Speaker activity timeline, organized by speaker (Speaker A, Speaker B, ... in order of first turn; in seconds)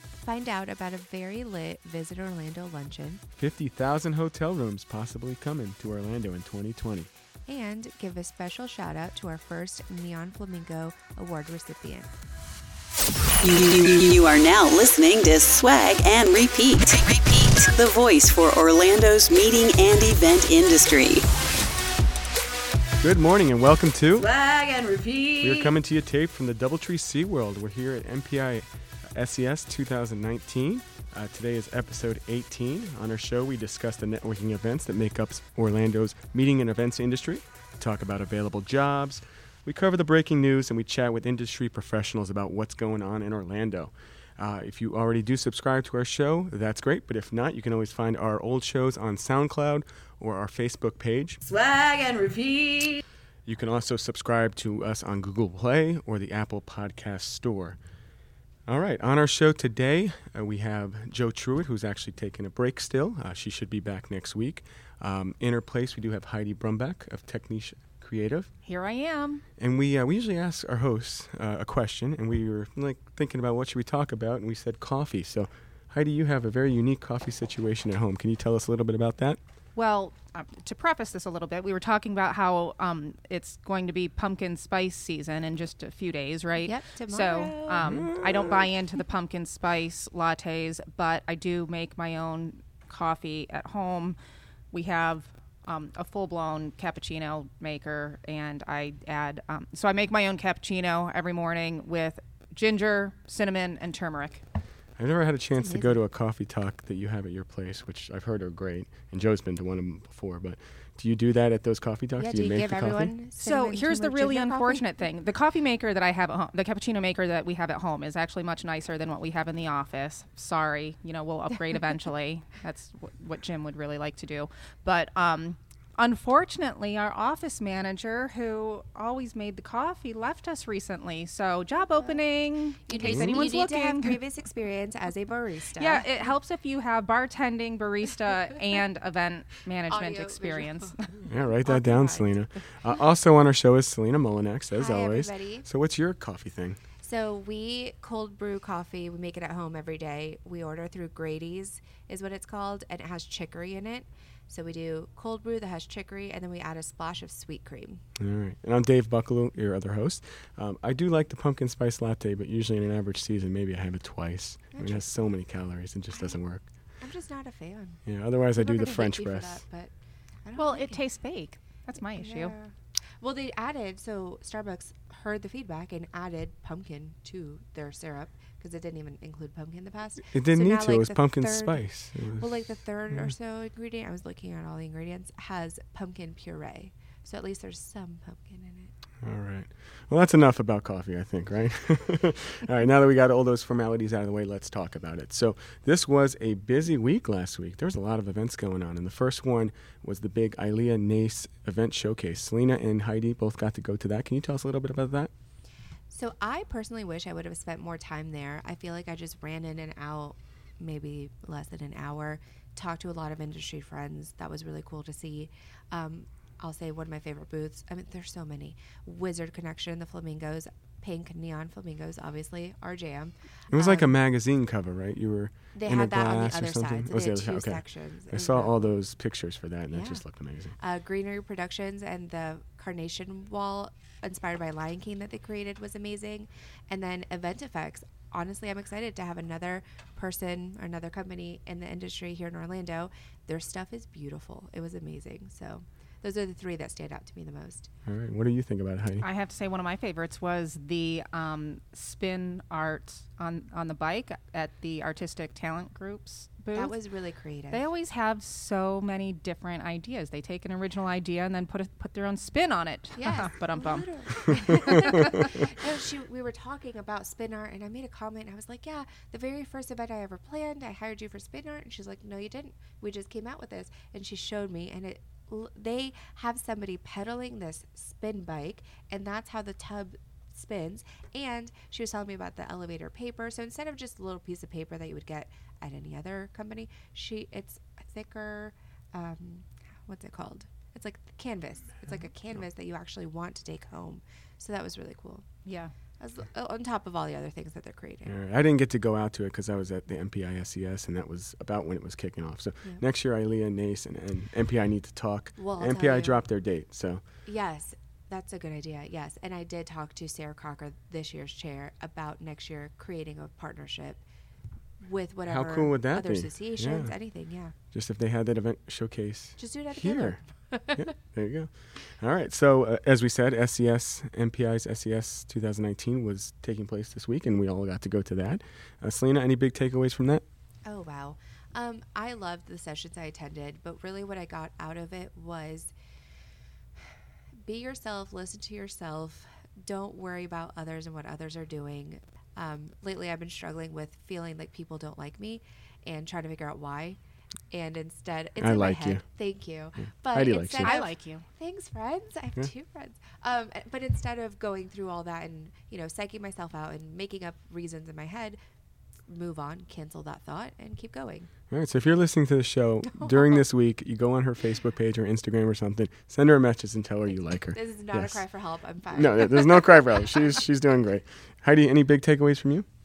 Speaker A: 0.2-3.2, 7.5-12.1, 86.6-87.9, 105.6-106.0, 112.2-115.1, 132.9-136.1, 139.9-142.9, 144.7-145.7, 147.0-158.0, 164.7-165.1, 167.0-168.0, 168.6-169.9, 170.4-171.0, 172.2-188.9, 206.1-224.1, 225.7-228.7, 229.9-230.3, 230.8-247.9, 256.8-257.9, 263.2-295.5, 296.2-298.3, 305.6-306.4, 307.4-314.2, 315.0-317.7, 319.6-321.0, 330.9-335.9, 337.6-347.2, 347.7-358.6, 359.3-361.5, 363.1-363.5, 367.7-370.4
Speaker B: 3.4-7.1, 23.0-24.3, 25.4-51.4, 53.5-57.8, 58.7-68.5, 69.6-79.4, 87.8-88.7, 105.0-113.2, 133.0-133.4, 141.3-146.8, 158.2-166.7, 168.1-169.6, 180.3-183.3, 189.2-205.3, 223.7-230.8, 248.1-249.3, 298.3-307.2, 315.5-317.2, 317.9-330.4, 348.6-349.2, 350.3-351.0, 361.7-368.4, 369.1-372.9
Speaker C: 13.4-21.2
Speaker D: 24.2-25.7, 51.4-53.0
Speaker E: 68.6-69.4, 79.8-94.2, 94.7-104.4, 113.4-134.2, 135.8-141.1, 170.6-172.6, 249.2-256.9, 257.7-265.3, 295.6-295.9, 350.8-351.4